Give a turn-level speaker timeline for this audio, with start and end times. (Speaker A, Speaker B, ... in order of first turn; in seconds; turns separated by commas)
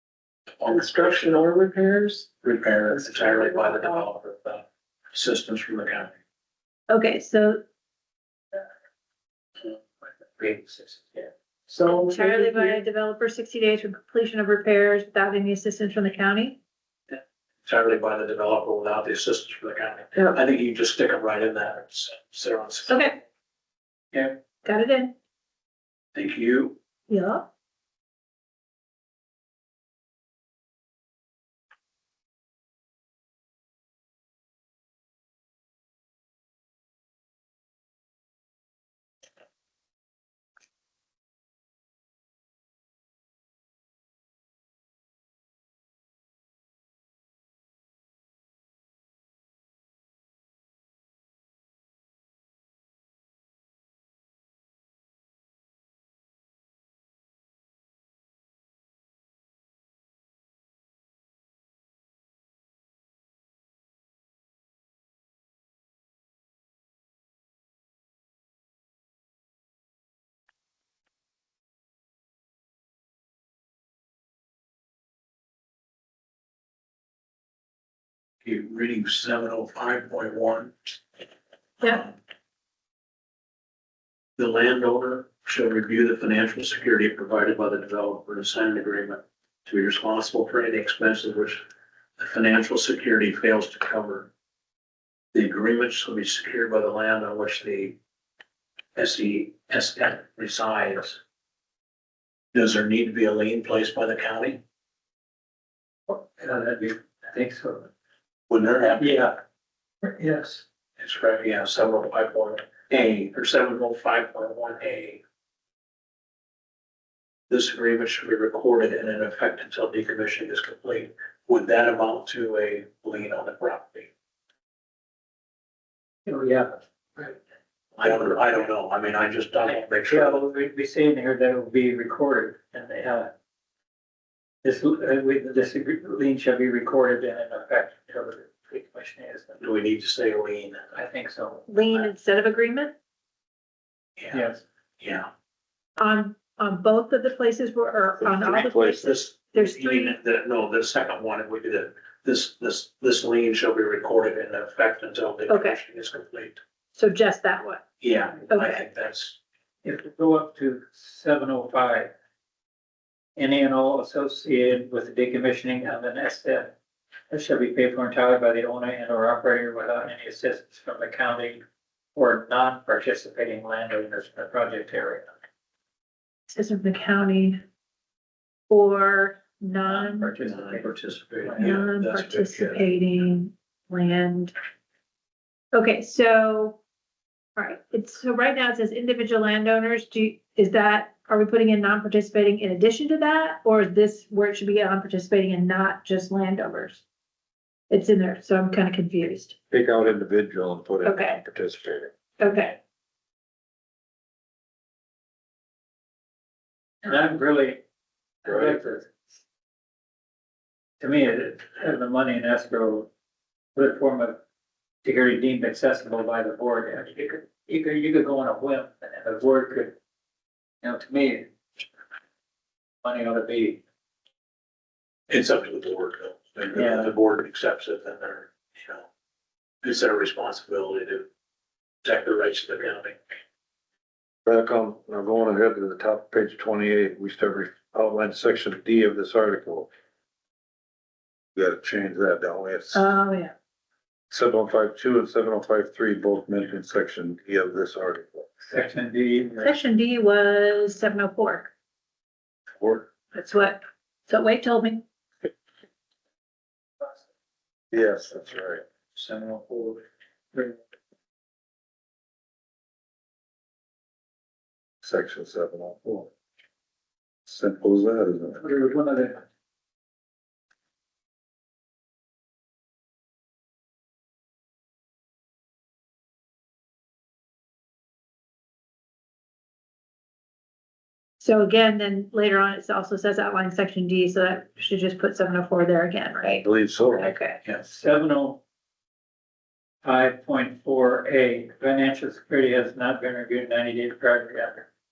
Speaker A: 0.6-1.4, Speaker B: 0.7-2.3, Speaker A: 2.4-6.2, Speaker C: 6.9-7.6, Speaker D: 10.0-11.3, Speaker B: 11.7-12.6, Speaker C: 12.1-16.6, Speaker A: 17.6-23.2, Speaker C: 20.1-20.4, Speaker C: 22.9-23.2, Speaker C: 24.6-25.1, Speaker A: 26.1-26.8, Speaker C: 27.1-27.5, Speaker A: 78.4-80.7, Speaker C: 81.8-82.0, Speaker A: 84.4-91.6, Speaker A: 92.2-94.3, Speaker A: 95.3-98.0, Speaker A: 99.0-101.2, Speaker A: 102.5-104.6, Speaker D: 106.1-107.9, Speaker A: 108.5-109.3, Speaker D: 109.0-109.4, Speaker D: 110.0-110.6, Speaker A: 111.0-115.2, Speaker A: 117.5-124.1, Speaker D: 126.2-127.4, Speaker A: 128.0-130.4, Speaker D: 129.6-133.3, Speaker D: 134.6-139.6, Speaker A: 139.6-140.9, Speaker D: 140.9-141.7, Speaker C: 141.7-142.9, Speaker A: 144.2-145.3, Speaker D: 144.3-144.6, Speaker C: 146.0-150.2, Speaker E: 148.2-149.1, Speaker A: 149.0-156.6, Speaker C: 155.5-155.8, Speaker C: 156.9-157.8, Speaker A: 158.0-159.4, Speaker C: 158.5-158.8, Speaker D: 159.8-162.1, Speaker D: 163.3-166.7, Speaker D: 167.3-171.6, Speaker D: 172.1-175.3, Speaker C: 176.5-177.6, Speaker C: 178.7-180.3, Speaker D: 179.8-181.8, Speaker A: 180.4-182.8, Speaker C: 181.6-184.5, Speaker C: 185.7-186.8, Speaker C: 187.6-197.0, Speaker C: 197.9-199.6, Speaker E: 199.7-202.1, Speaker C: 201.0-201.4, Speaker C: 202.4-202.8, Speaker D: 207.0-207.8, Speaker D: 208.4-209.1, Speaker E: 208.5-208.7, Speaker D: 211.0-213.1, Speaker D: 213.7-214.4, Speaker D: 215.0-219.9, Speaker D: 220.8-221.5, Speaker D: 223.0-223.8, Speaker A: 225.3-229.1, Speaker D: 226.7-227.2, Speaker A: 229.8-231.3, Speaker A: 232.0-233.2, Speaker E: 234.4-239.9, Speaker E: 241.5-243.1, Speaker C: 242.9-243.5, Speaker E: 244.3-248.5, Speaker D: 248.6-249.7, Speaker C: 249.6-251.7, Speaker E: 252.8-253.1, Speaker C: 253.3-255.0, Speaker E: 257.9-258.8, Speaker D: 259.1-260.0, Speaker E: 265.0-266.3, Speaker E: 267.4-268.6, Speaker D: 268.6-269.4, Speaker C: 281.4-287.6, Speaker E: 286.6-287.3, Speaker D: 287.8-288.6, Speaker D: 290.0-294.9